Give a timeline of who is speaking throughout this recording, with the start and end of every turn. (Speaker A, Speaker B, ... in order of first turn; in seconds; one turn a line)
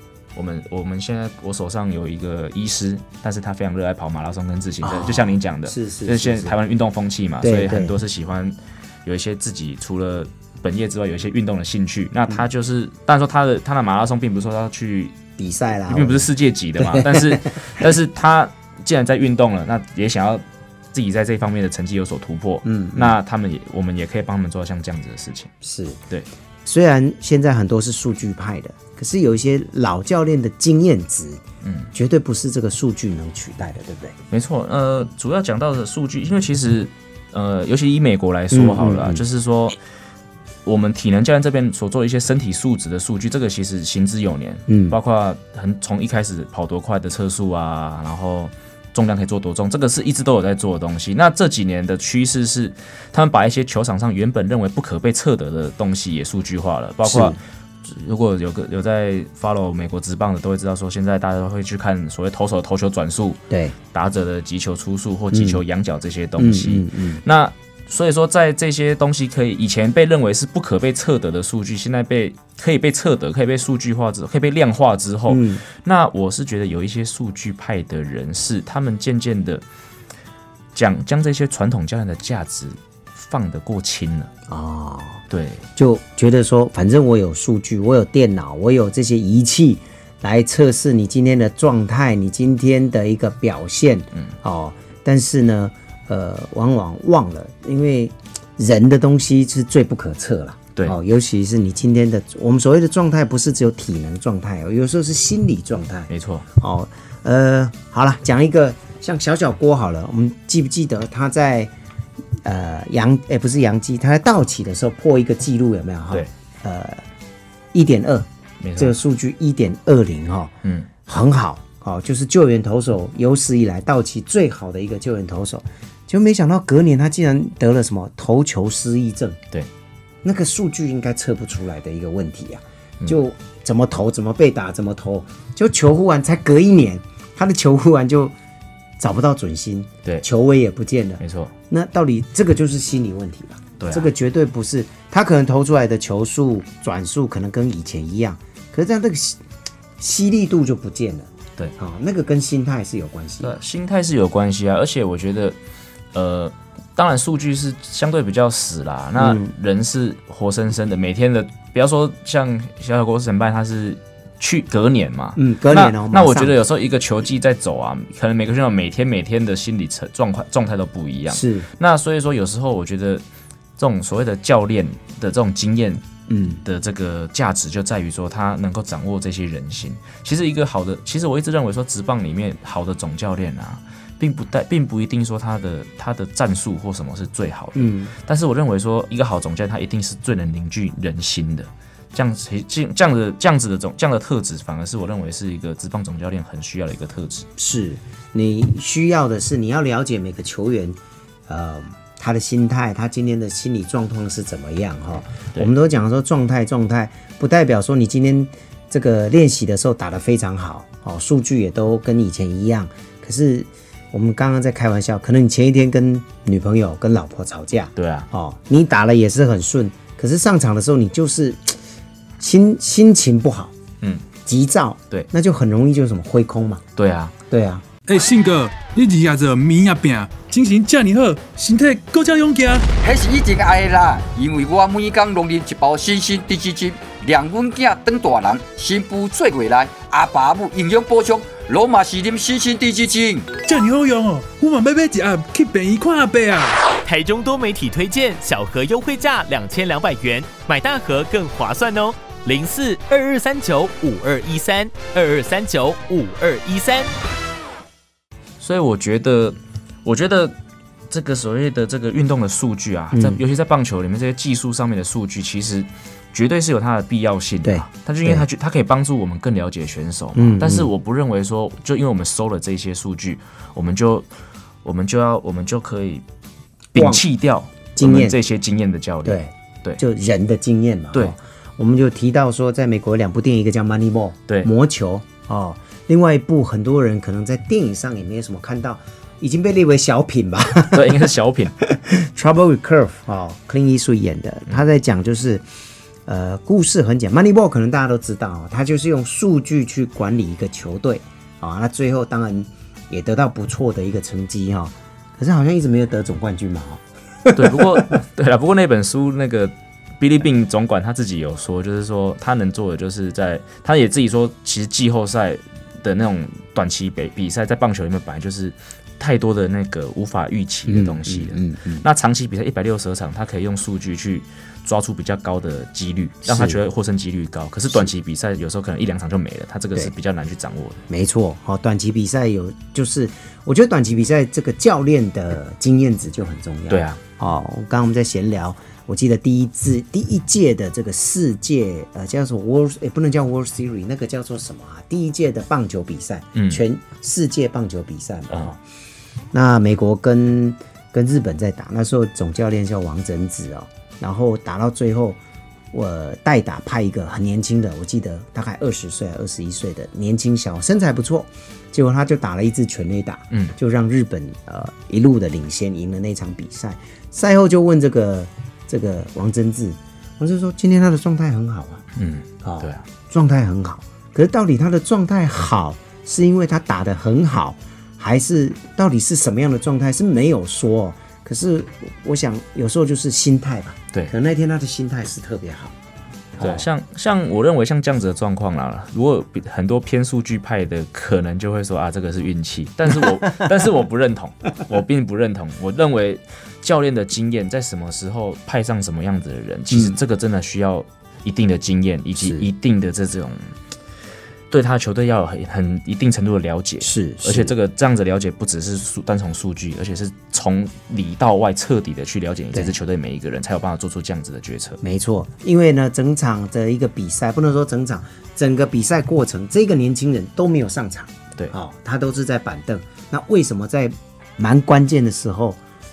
Speaker A: 0.3-15.2
Speaker B: 4.8-6.6
Speaker B: 7.4-7.9
Speaker B: 15.4-17.7
Speaker A: 15.9-25.5
Speaker B: 22.6-23.1
Speaker B: 25.6-26.0
Speaker B: 26.6-34.1
Speaker A: 31.6-31.9
Speaker A: 34.3-39.8
Speaker B: 38.5-39.2
Speaker A: 40.6-63.4
Speaker B: 44.7-45.0
Speaker B: 57.0-57.4
Speaker B: 63.5-63.7
Speaker A: 63.9-79.6
Speaker B: 65.3-65.6
Speaker B: 66.4-67.2
Speaker B: 75.3-75.6
Speaker A: 80.7-84.3
Speaker B: 84.5-85.2
Speaker A: 85.3-85.6
Speaker B: 85.8-111.7
Speaker A: 106.1-106.4
Speaker B: 112.4-117.0
Speaker B: 117.7-120.5
Speaker A: 118.6-119.0
Speaker A: 120.6-120.9
Speaker B: 121.0-129.4
Speaker B: 130.2-138.3
Speaker B: 139.0-149.4
Speaker A: 141.2-141.5
Speaker A: 143.8-144.1
Speaker B: 150.0-153.6
Speaker A: 153.4-155.6
Speaker A: 156.1-173.2
Speaker B: 159.2-159.5
Speaker B: 165.3-166.6
Speaker B: 171.3-171.7
Speaker A: 173.8-176.1
Speaker B: 176.3-176.6
Speaker A: 176.6-197.5
Speaker B: 187.7-188.1
Speaker B: 197.6-221.8
Speaker A: 217.9-218.3
Speaker B: 222.4-223.7
Speaker B: 224.4-226.8
Speaker A: 226.9-227.3
Speaker B: 227.5-227.8
Speaker C: 228.1-232.8
Speaker D: 233.0-243.6
Speaker C: 243.6-246.8
Speaker E: 247.0-257.1
Speaker A: 258.6-260.5
Speaker A: 261.1-274.3
Speaker B: 263.1-263.4
Speaker B: 267.6-268.4
Speaker B: 270.4-270.9
Speaker A: 274.8-276.2
Speaker A: 276.9-280.0
Speaker B: 276.9-277.2
Speaker B: 277.9-278.4
Speaker B: 279.2-291.2
Speaker A: 290.9-291.7
Speaker B: 291.8-295.6
Speaker B: 296.2-308.1
Speaker A: 307.5-331.0
Speaker B: 320.9-322.0
Speaker B: 326.4-326.8
Speaker B: 331.1-348.8
Speaker A: 336.9-337.2
Speaker A: 346.5-346.8
Speaker B: 349.5-355.4
Speaker B: 355.9-372.0
Speaker A: 372.1-373.0
Speaker B: 372.6-385.9
Speaker B: 386.6-386.9
Speaker A: 386.6-403.7
Speaker B: 399.9-400.2
Speaker B: 402.4-402.6
Speaker A: 404.7-415.0
Speaker B: 407.0-407.7
Speaker B: 415.0-425.8